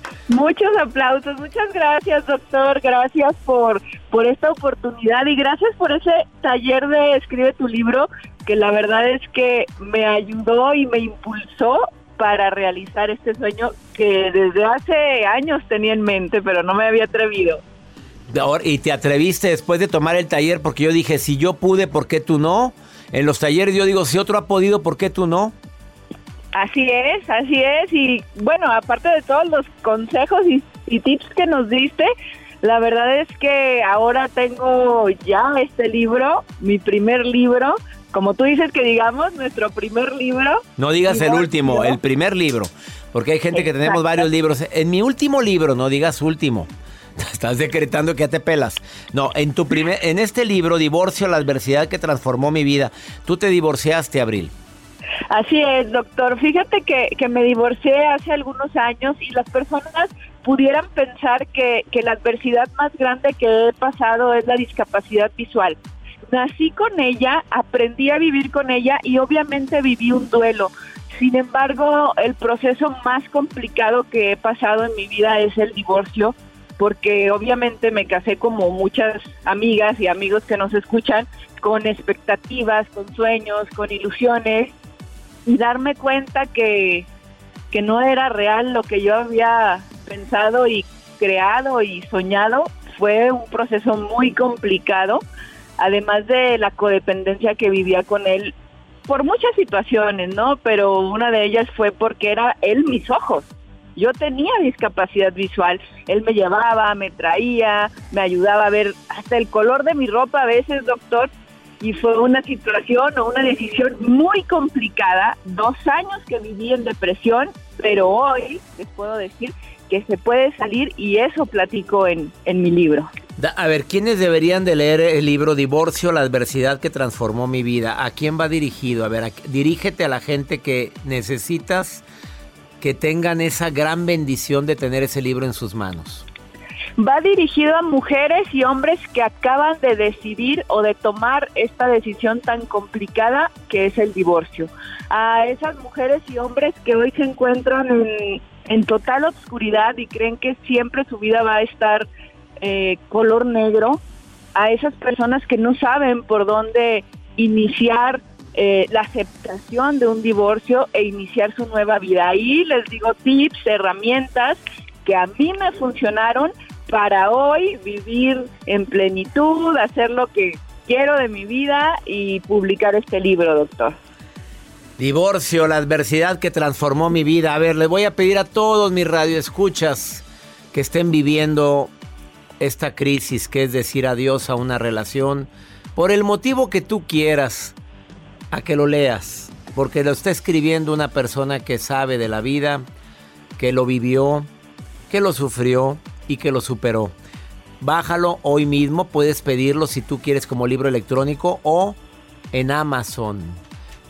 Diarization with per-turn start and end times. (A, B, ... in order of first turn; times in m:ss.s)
0:00.3-0:17.6 A
0:18.3-0:25.5 B
0:26.5-0:42.0 A
0:40.8-0:54.5 B
0:43.5-0:44.2 A
0:55.3-1:05.8 A
1:06.3-1:24.7 A
1:25.4-1:27.1 A
1:27.7-1:35.2 A
1:35.8-1:38.5 A
1:39.1-1:51.3 A
1:51.8-2:03.1 A
2:03.4-2:12.0 B
2:12.8-2:16.2 B
2:17.0-2:32.1 A
2:32.6-2:34.0 A
2:34.5-2:54.0 A
2:55.0-3:01.9 B
3:02.6-3:07.7 B
3:08.5-3:12.8 B
3:13.6-3:14.5 B
3:15.1-3:17.1 B
3:17.8-3:22.0 B
3:22.5-3:23.6 B